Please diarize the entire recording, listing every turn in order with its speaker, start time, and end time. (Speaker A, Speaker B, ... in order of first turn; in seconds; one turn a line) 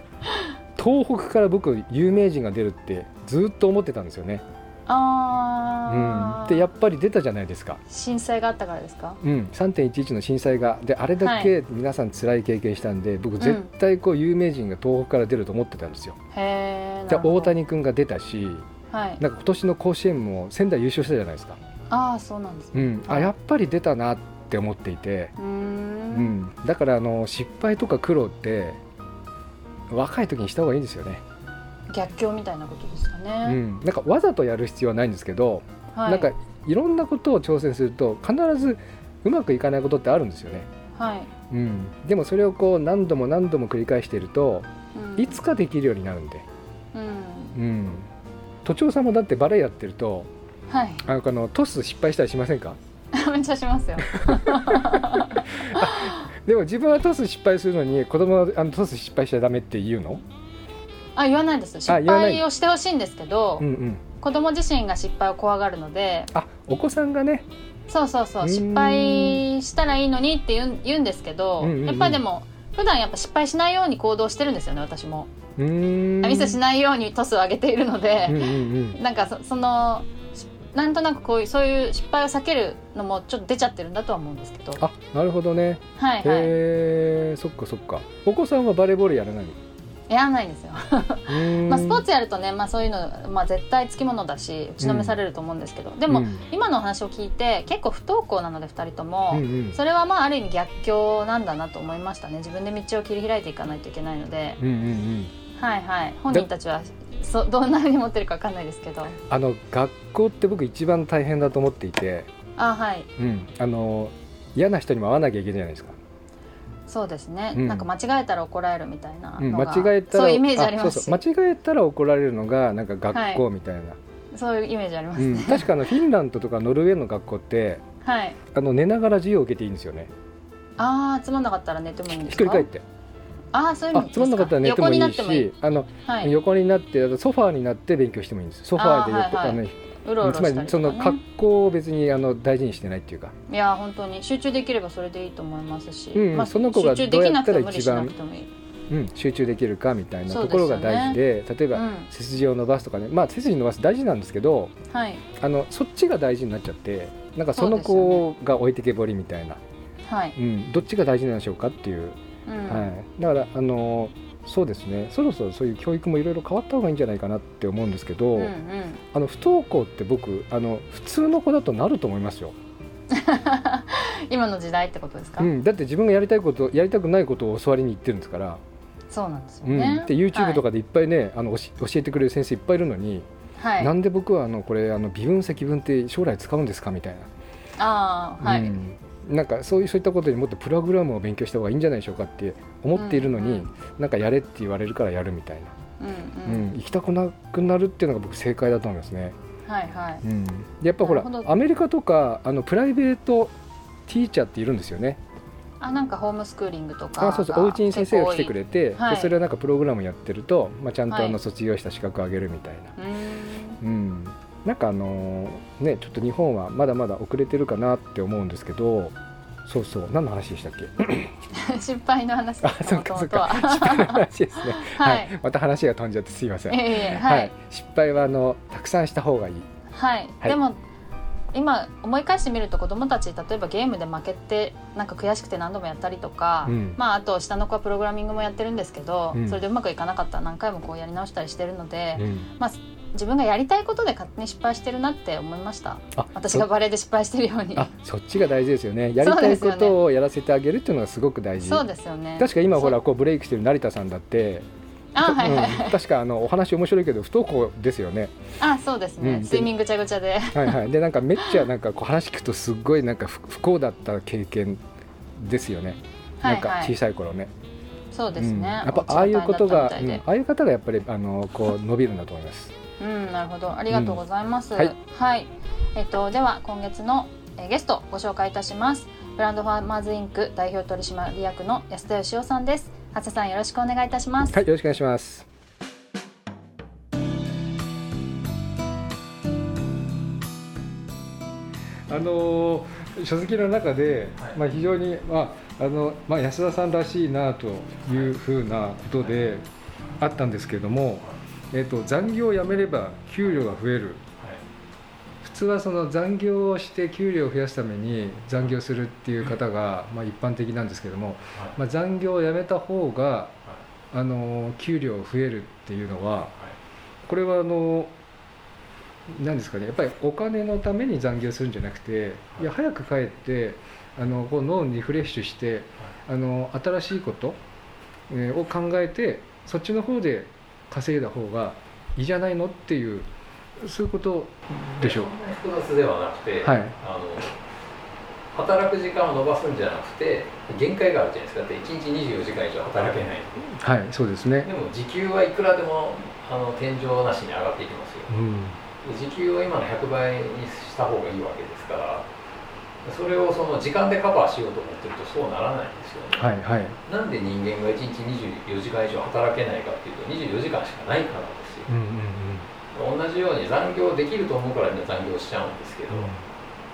Speaker A: 0.2-0.5
Speaker B: 0.8-4.4
Speaker A: 4.9-6.7
Speaker B: 5.9-7.8
Speaker A: 7.9-9.2
Speaker B: 9.2-16.2
Speaker A: 11.2-11.5
Speaker A: 13.4-13.7
Speaker A: 16.3-17.5
Speaker B: 17.1-18.7
Speaker A: 18.9-19.2
Speaker B: 19.2-21.6
Speaker A: 21.9-23.3
Speaker B: 22.7-25.3
Speaker A: 25.4-26.3
Speaker B: 26.1-28.8
Speaker B: 29.9-31.2
Speaker A: 31.9-33.6
Speaker B: 33.5-40.7
Speaker A: 35.9-36.3
Speaker A: 41.0-41.3
Speaker B: 41.5-46.5
Speaker A: 45.0-45.4
Speaker A: 46.9-47.6
Speaker B: 47.5-48.1
Speaker B: 48.6-50.3
Speaker A: 50.7-51.1
Speaker B: 51.0-52.8
Speaker A: 53.1-56.3
Speaker B: 54.2-60.2
Speaker A: 61.2-63.7
Speaker B: 61.9-62.5
Speaker B: 63.6-64.0
Speaker A: 64.2-66.3
Speaker B: 66.3-67.5
Speaker A: 67.9-75.3
Speaker B: 68.4-69.4
Speaker B: 71.6-72.2
Speaker B: 75.6-76.6
Speaker A: 76.2-84.8
Speaker B: 78.2-79.0
Speaker B: 84.8-89.6
Speaker A: 86.0-86.6
Speaker A: 90.1-104.6
Speaker B: 91.3-92.1
Speaker B: 94.8-95.2
Speaker B: 96.1-96.5
Speaker B: 99.3-99.8
Speaker B: 104.6-105.3
Speaker A: 105.6-109.2
Speaker B: 109.3-112.3
Speaker A: 112.6-113.1
Speaker B: 113.2-116.0
Speaker A: 116.9-121.2
Speaker B: 117.5-117.9
Speaker B: 119.4-124.0
Speaker A: 123.1-123.4
Speaker A: 124.3-126.0
Speaker B: 125.2-127.8
Speaker A: 128.0-128.4
Speaker B: 128.5-130.1
Speaker A: 130.8-132.7
Speaker B: 132.2-132.8
Speaker A: 133.5-135.5
Speaker B: 133.9-143.3
Speaker A: 136.1-136.3
Speaker A: 138.8-141.2
Speaker A: 143.5-148.5
Speaker B: 146.1-148.2
Speaker B: 148.9-154.7
Speaker A: 150.3-151.2
Speaker A: 151.7-152.1
Speaker A: 154.9-155.2
Speaker B: 155.4-159.6
Speaker A: 157.6-158.2
Speaker A: 160.1-160.4
Speaker B: 160.4-168.5
Speaker A: 162.5-162.9
Speaker A: 168.3-169.0
Speaker B: 169.1-172.6
Speaker A: 173.1-175.5
Speaker B: 175.4-178.6
Speaker A: 179.1-180.6
Speaker B: 179.7-183.3
Speaker A: 183.6-183.9
Speaker B: 183.8-187.3
Speaker A: 187.8-188.8
Speaker B: 188.4-195.7
Speaker A: 192.9-193.7
Speaker A: 196.0-196.7
Speaker B: 196.5-199.4
Speaker A: 199.7-200.2
Speaker B: 200.2-203.5
Speaker A: 201.0-201.5
Speaker B: 204.1-205.2
Speaker A: 205.8-209.3
Speaker B: 207.2-212.9
Speaker A: 211.1-211.4
Speaker A: 213.0-213.8
Speaker B: 213.8-221.3
Speaker A: 221.5-225.3
Speaker B: 222.6-229.7
Speaker A: 226.7-227.5
Speaker A: 229.9-230.8
Speaker A: 231.5-247.9
Speaker B: 236.7-237.0
Speaker B: 239.3-239.6
Speaker B: 242.2-242.5
Speaker B: 246.2-246.7
Speaker B: 247.8-251.9
Speaker A: 249.2-250.0
Speaker A: 251.6-253.0
Speaker B: 252.4-254.7
Speaker A: 255.2-256.0
Speaker B: 255.2-258.3
Speaker A: 258.6-260.8
Speaker B: 259.2-259.7
Speaker B: 260.5-264.8
Speaker B: 265.4-267.5
Speaker A: 266.4-266.9
Speaker A: 268.1-270.2
Speaker B: 268.4-272.7
Speaker A: 273.0-284.6
Speaker B: 273.9-274.2
Speaker B: 284.5-285.5
Speaker B: 292.1-299.7
Speaker C: 298.1-298.3
Speaker C: 299.2-299.6
Speaker B: 300.2-304.2
Speaker B: 305.4-313.6
Speaker B: 314.1-316.6
Speaker B: 317.3-318.1
Speaker B: 319.3-327.6
Speaker B: 328.3-335.3
Speaker C: 335.0-337.6
Speaker B: 336.6-336.9
Speaker C: 338.5-343.7
Speaker B: 343.7-344.7
Speaker C: 344.6-348.4
Speaker B: 348.3-348.8
Speaker C: 349.0-352.3
Speaker C: 353.0-356.5
Speaker B: 356.4-357.0
Speaker C: 357.1-361.9
Speaker B: 361.9-362.7
Speaker C: 362.9-366.3
Speaker B: 366.1-366.4